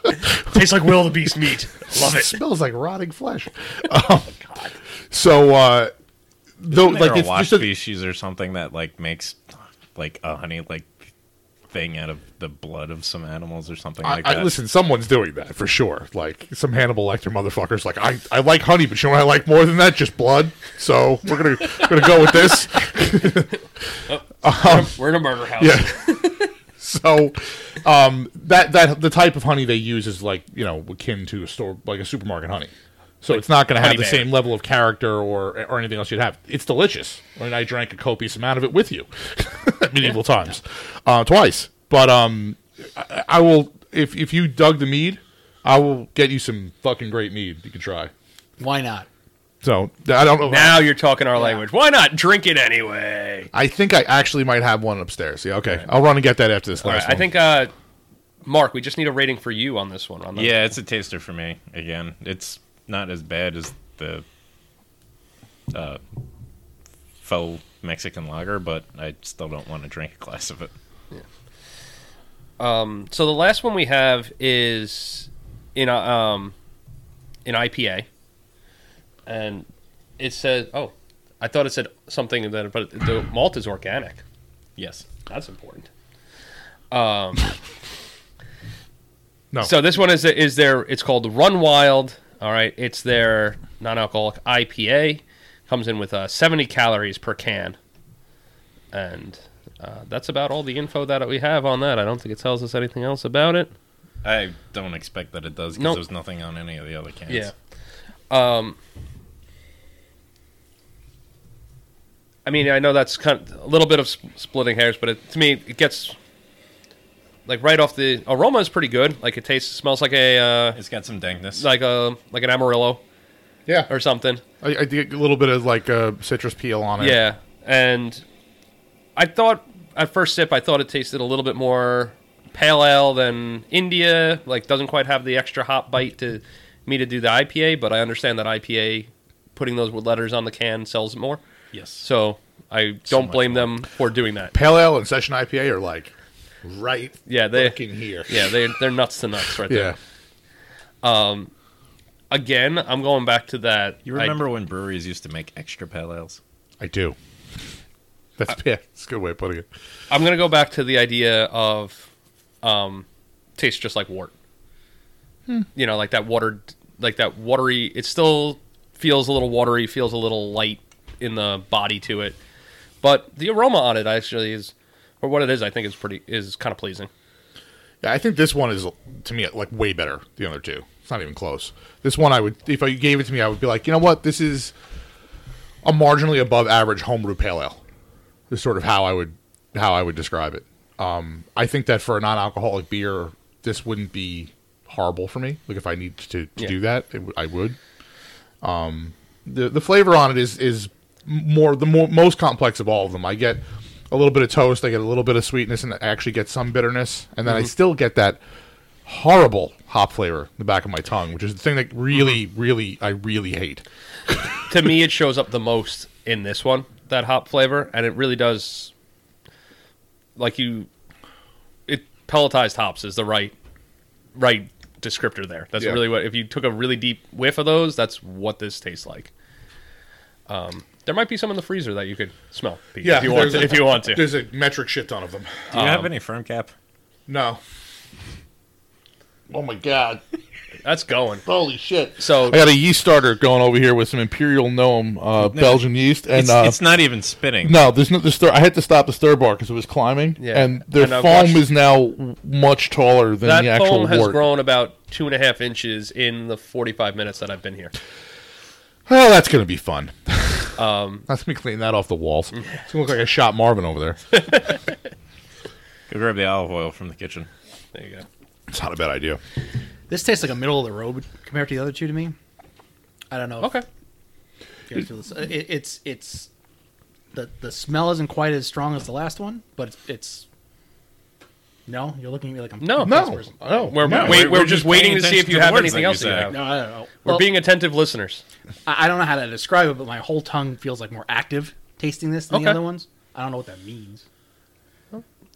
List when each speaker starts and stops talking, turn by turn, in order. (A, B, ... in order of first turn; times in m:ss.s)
0:00.2-0:02.4 A
0:01.9-0:04.3 B
0:04.4-0:04.7 A
0:05.1-0:05.9 B
0:06.6-0:07.7 B
0:06.7-0:11.0 C
0:11.7-0:14.5 C
0:14.0-0:23.6 B
0:24.1-0:26.5 A
0:24.4-0:25.0 B
0:25.6-0:32.7 B
0:33.2-0:48.1 B
0:33.3-0:34.3 A
0:48.6-0:49.1 D
0:49.6-0:50.9 B
0:50.4-0:53.5 A
0:51.3-0:51.6 D
0:53.5-0:57.3 B
0:56.8-0:57.7 A
0:58.4-1:00.6 A
1:00.3-1:04.2 C
1:05.7-1:06.0 C
1:07.2-1:10.7 C
1:12.6-1:16.5 A
1:17.4-1:18.1 A
1:19.2-1:19.7 A
1:20.2-1:24.2 A
1:24.8-1:25.0 C
1:25.2-1:25.9 A
1:26.9-1:27.5 A
1:29.6-1:37.8 A
1:38.9-1:43.7 A
1:44.2-1:47.5 C
1:45.8-1:46.0 A
1:47.3-1:47.5 A
1:48.3-1:48.8 A
1:52.4-1:56.2 A
1:57.4-2:00.8 A
2:00.7-2:01.6 C
2:01.5-2:03.0 A
2:03.9-2:04.4 A
2:04.6-2:07.2 B
2:07.0-2:08.2 A
2:09.2-2:21.4 A
2:21.7-2:22.0 C
2:22.0-2:24.5 A
2:23.1-2:23.6 C
2:24.5-2:26.1 B
2:26.6-2:28.5 B
2:27.3-2:29.9 A
2:29.7-2:30.0 B
2:31.0-2:31.5 A
2:32.3-2:34.4 A
2:34.0-2:36.4 C
2:36.8-2:37.2 B
2:38.4-2:39.6 B
2:40.1-2:42.1 A
2:42.6-2:43.0 A
2:43.6-2:44.3 A
2:45.7-2:52.4 A
2:53.0-2:57.1 A
2:58.0-3:04.7 B
3:05.8-3:07.8 B
3:08.5-3:17.8 B
3:18.6-3:28.4 B
3:29.0-3:34.3 B
3:34.7-3:38.9 A
3:40.4-3:40.9 A
3:41.9-3:43.5 A
3:44.3-3:49.3 A
3:50.5-3:54.2 A
3:53.0-3:55.7 B
3:55.7-3:56.1 A
3:55.7-3:56.7 C
3:57.3-3:57.6 B
3:59.5-4:00.2 B
4:00.8-4:01.4 A
4:01.4-4:06.8 B
4:02.2-4:02.6 A
4:05.4-4:07.8 C
4:07.6-4:14.4 B
4:10.4-4:11.6 A
4:13.4-4:17.9 A
4:19.1-4:24.2 B
4:20.8-4:21.2 A
4:24.3-4:24.8 A
4:26.1-4:27.5 C
4:27.9-4:28.2 A
4:28.7-4:29.4 B
4:30.1-4:32.3 D
4:33.3-4:33.8 D
4:33.6-4:33.8 A
4:34.9-4:36.5 D
4:37.3-4:40.4 D
4:41.9-4:44.1 D
4:42.8-4:43.2 A
4:43.0-4:44.6 B
4:43.8-4:46.7 A
4:44.0-4:46.6 C
4:46.5-4:47.5 D
4:47.2-4:48.4 A
4:48.8-4:54.2 D
4:52.5-4:52.8 A